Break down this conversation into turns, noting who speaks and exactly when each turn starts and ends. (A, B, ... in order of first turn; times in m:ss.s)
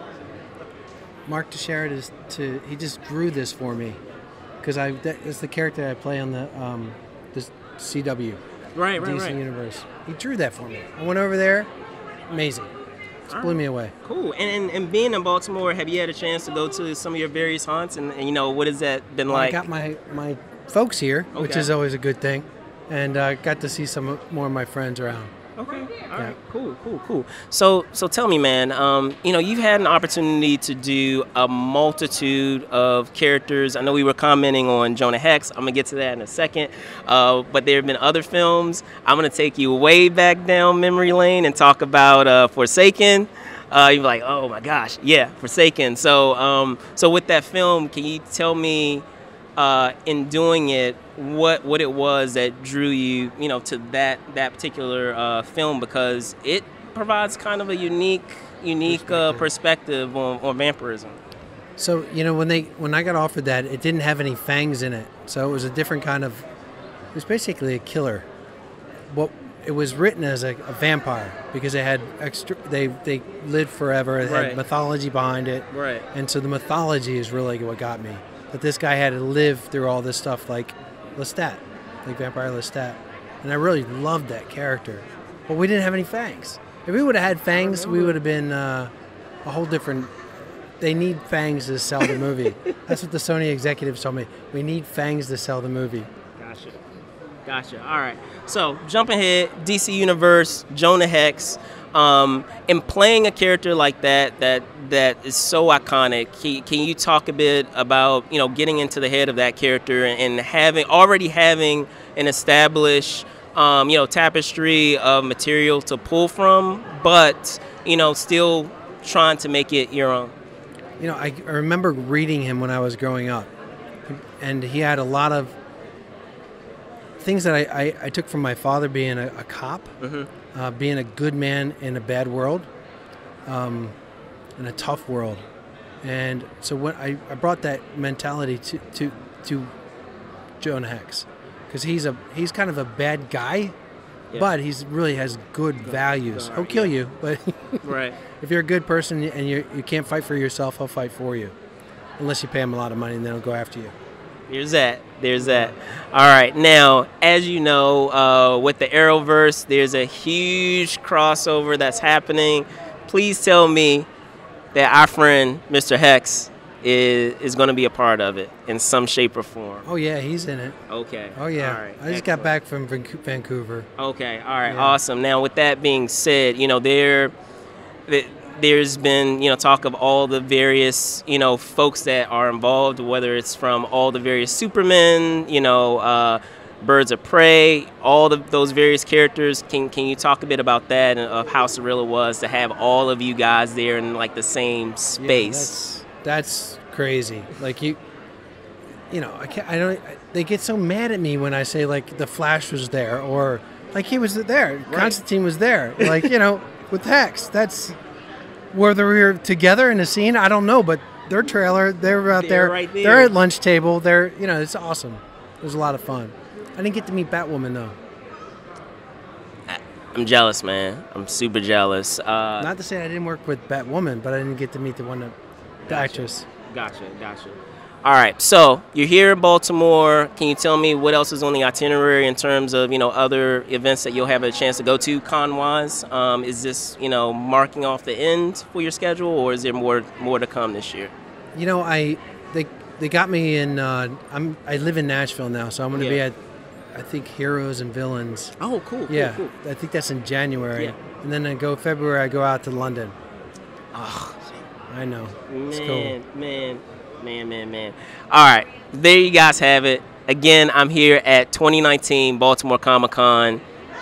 0:01.3-0:04.0 A
0:04.6-0:08.4 A
0:08.8-0:09.4 B
0:09.0-0:11.7 A
0:12.3-0:12.7 A
0:13.3-0:19.6 B
0:13.3-0:13.9 A
0:19.3-0:25.3 A
0:21.3-0:21.7 B
0:25.6-0:49.0 B
0:49.6-1:01.2 B
0:58.8-0:59.5 A
1:01.8-1:06.5 A
1:07.1-1:08.3 A
1:09.1-1:28.9 A
1:14.2-1:14.6 B
1:15.7-1:16.1 B
1:27.5-1:28.2 B
1:29.4-1:30.1 A
1:30.8-1:36.1 A
1:36.4-1:36.8 B
1:37.5-2:00.4 B
2:01.0-2:03.5 A
2:04.1-2:05.6 A
2:07.2-2:09.9 A
2:10.0-2:10.3 B
2:10.5-2:12.7 A
2:13.5-2:14.0 A
2:14.6-2:15.4 A
2:16.0-2:19.7 A
2:20.6-2:23.8 A
2:24.4-2:27.8 A
2:25.8-2:26.9 B
2:27.8-2:28.2 B
2:28.4-2:31.6 A
2:32.2-2:33.9 A
2:34.5-2:44.1 B
2:35.4-2:35.7 A
2:44.7-2:49.9 B
2:49.8-2:50.8 A
2:50.9-2:52.5 B
2:51.4-2:53.9 A
2:54.0-2:57.3 B
2:54.6-2:55.0 A
2:58.1-3:15.8 B
3:15.2-3:18.0 A
3:19.1-3:28.0 A
3:24.9-3:25.2 B
3:26.0-3:26.3 B
3:28.7-3:38.0 A
3:32.3-3:33.4 B
3:39.7-3:42.7 B
3:42.6-3:45.4 A
3:45.9-4:01.1 B
3:45.9-3:46.4 A
4:01.6-4:06.4 A
4:05.9-4:06.2 B
4:06.9-4:08.5 A
4:08.6-4:09.5 B
4:09.1-4:13.2 A
4:13.9-4:14.4 B
4:14.9-4:16.2 A
4:15.5-4:23.6 B